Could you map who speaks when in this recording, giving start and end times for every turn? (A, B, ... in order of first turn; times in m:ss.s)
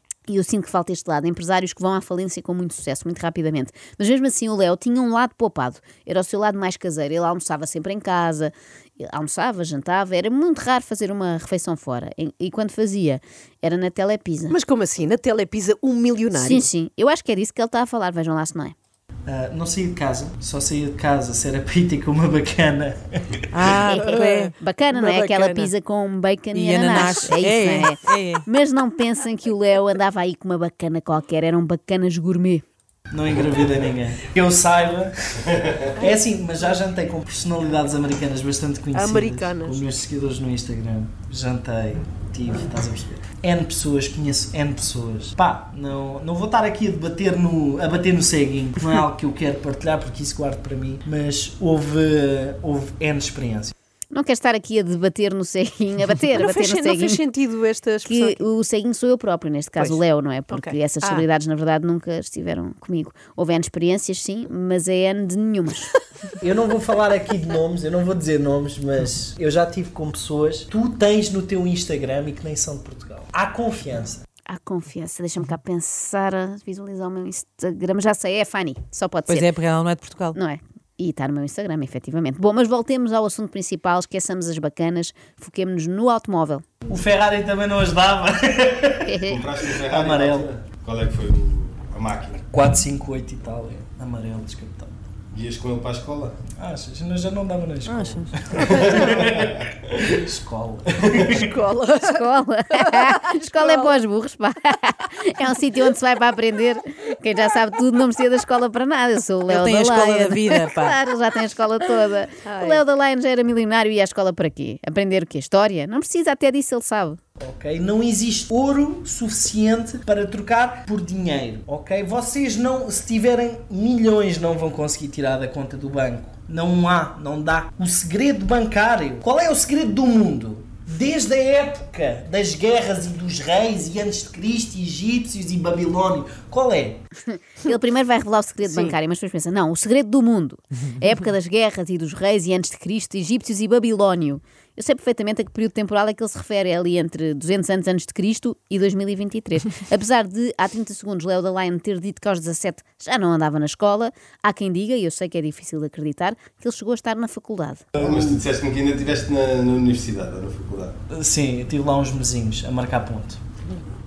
0:00.3-0:14.6 A
0:14.5-0:16.6 B
0:16.3-0:18.7 A
0:19.2-0:23.4 C
0:23.5-0:24.5 D
0:23.9-0:32.6 A
0:23.9-0:25.7 B
0:26.5-0:28.4 D
0:33.1-0:53.7 C
0:38.9-0:39.8 B
0:54.1-0:57.2 A
0:56.3-0:58.4 B
0:58.0-1:05.9 A
0:59.8-1:01.2 B
1:06.4-1:14.2 C
1:14.5-1:19.5 A
1:19.3-1:20.4 D
1:20.3-1:26.6 A
1:26.9-1:29.2 C
1:29.0-1:29.4 A
1:29.2-1:32.4 E
1:29.9-1:30.5 C
1:32.4-1:35.0 C
1:35.3-1:36.4 E
1:36.5-1:41.5 C
1:37.9-1:38.3 D
1:38.6-1:39.9 E
1:38.7-1:39.2 B
1:41.3-1:43.9 B
1:42.0-1:57.2 A
1:49.5-1:51.0 D
1:52.4-1:52.8 B
1:57.4-2:17.0 C
2:17.3-2:37.8 A
2:18.6-2:18.9 B
2:37.9-2:38.4 C
2:37.9-2:40.9 E
2:41.1-2:43.4 C